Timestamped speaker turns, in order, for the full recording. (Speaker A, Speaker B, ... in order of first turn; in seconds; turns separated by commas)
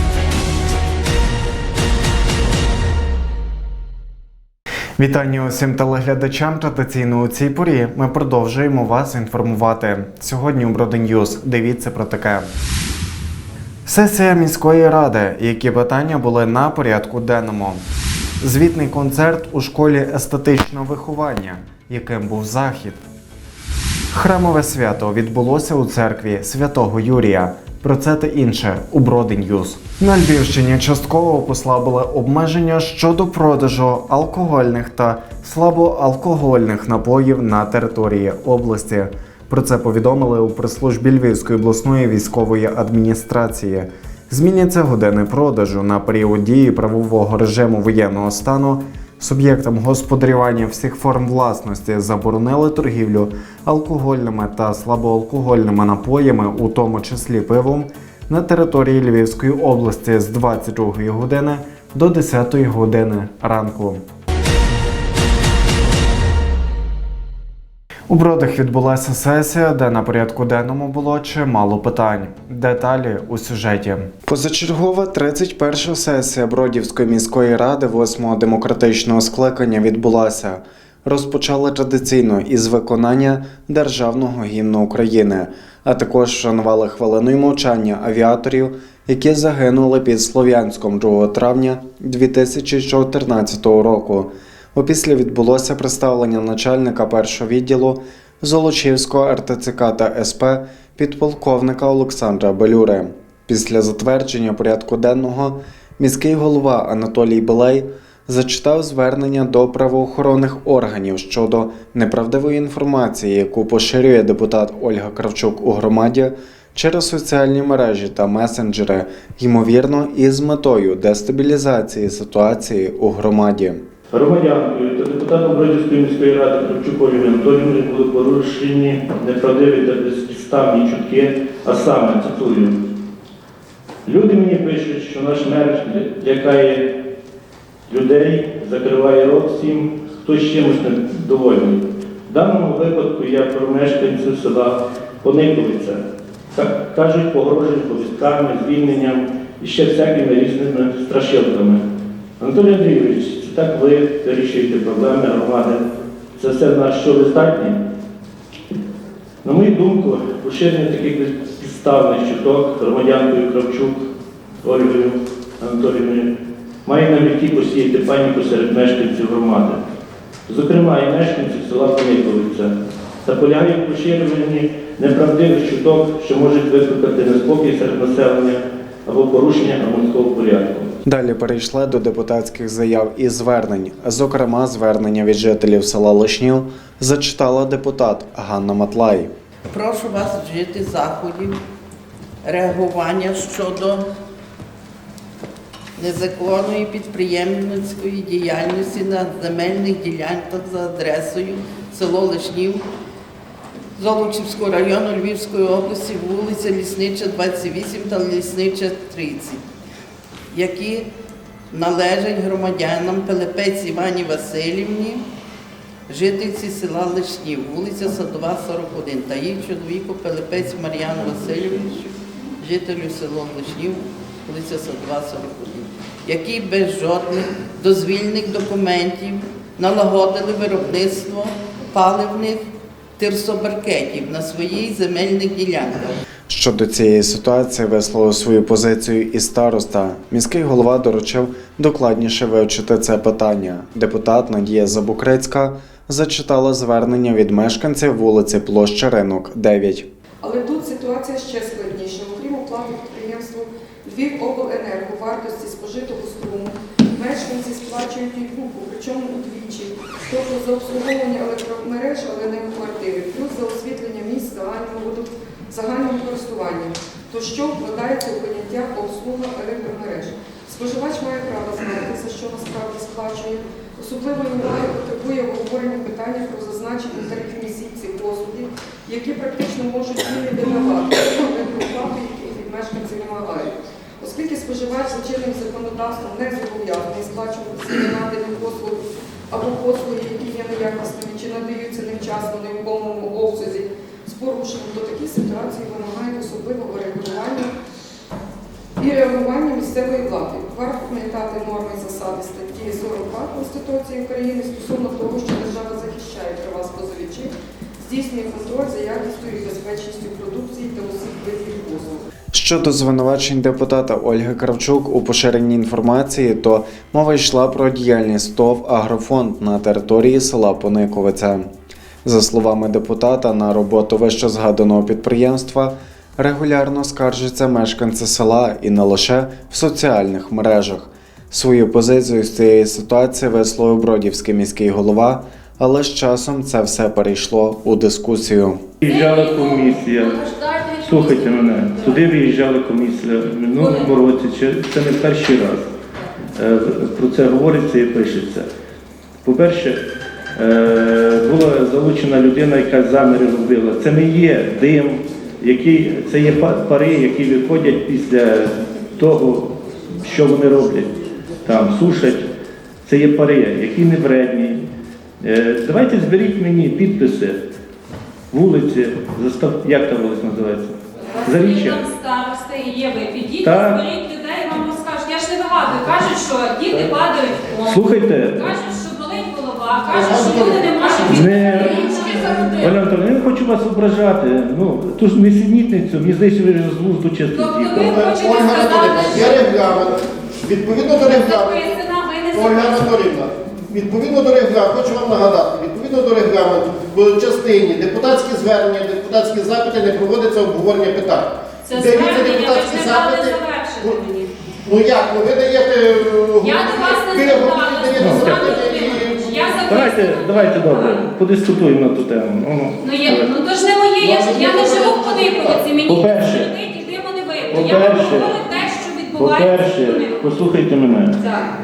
Speaker A: 5.0-12.5, Speaker A: 13.8-17.8, Speaker A: 18.4-23.0, Speaker A: 24.1-64.0, Speaker A: 68.1-123.8, Speaker B: 124.1-132.8, Speaker B: 134.1-136.9, Speaker B: 137.9-146.0, Speaker B: 146.5-151.8, Speaker B: 152.4-155.8, Speaker B: 156.3-157.8, Speaker B: 159.4-164.0, Speaker B: 164.6-166.3, Speaker B: 166.8-169.8, Speaker B: 170.5-180.9, Speaker A: 181.0-189.3, Speaker C: 189.7-191.6, Speaker C: 192.4-194.1, Speaker C: 196.0-202.8, Speaker C: 203.9-209.6, Speaker C: 210.5-211.1, Speaker C: 211.7-215.2, Speaker C: 216.1-236.2, Speaker A: 236.5-250.1, Speaker D: 250.4-297.7, Speaker D: 299.0-312.2, Speaker A: 312.5-321.7, Speaker A: 322.2-338.8, Speaker B: 339.0-340.4, Speaker E: 339.0-342.3, Speaker B: 341.0-345.9, Speaker E: 343.8-344.1, Speaker B: 346.5-348.7, Speaker B: 349.4-350.0, Speaker B: 350.6-362.5, Speaker B: 363.0-364.9, Speaker B: 365.4-367.6, Speaker B: 368.5-372.0, Speaker E: 371.2-382.9, Speaker B: 373.6-374.0, Speaker B: 377.9-378.6, Speaker F: 380.1-381.3, Speaker B: 381.3-382.1, Speaker B: 382.8-388.2, Speaker E: 387.5-389.8, Speaker F: 388.1-392.0, Speaker E: 391.2-393.2, Speaker F: 392.5-404.2, Speaker E: 401.8-404.5, Speaker F: 404.9-409.6, Speaker E: 406.6-411.3, Speaker B: 408.2-408.7, Speaker B: 409.9-413.5, Speaker E: 413.0-420.5, Speaker F: 414.2-416.0, Speaker B: 416.1-416.7, Speaker B: 417.7-418.5, Speaker B: 419.4-421.4, Speaker E: 421.4-421.7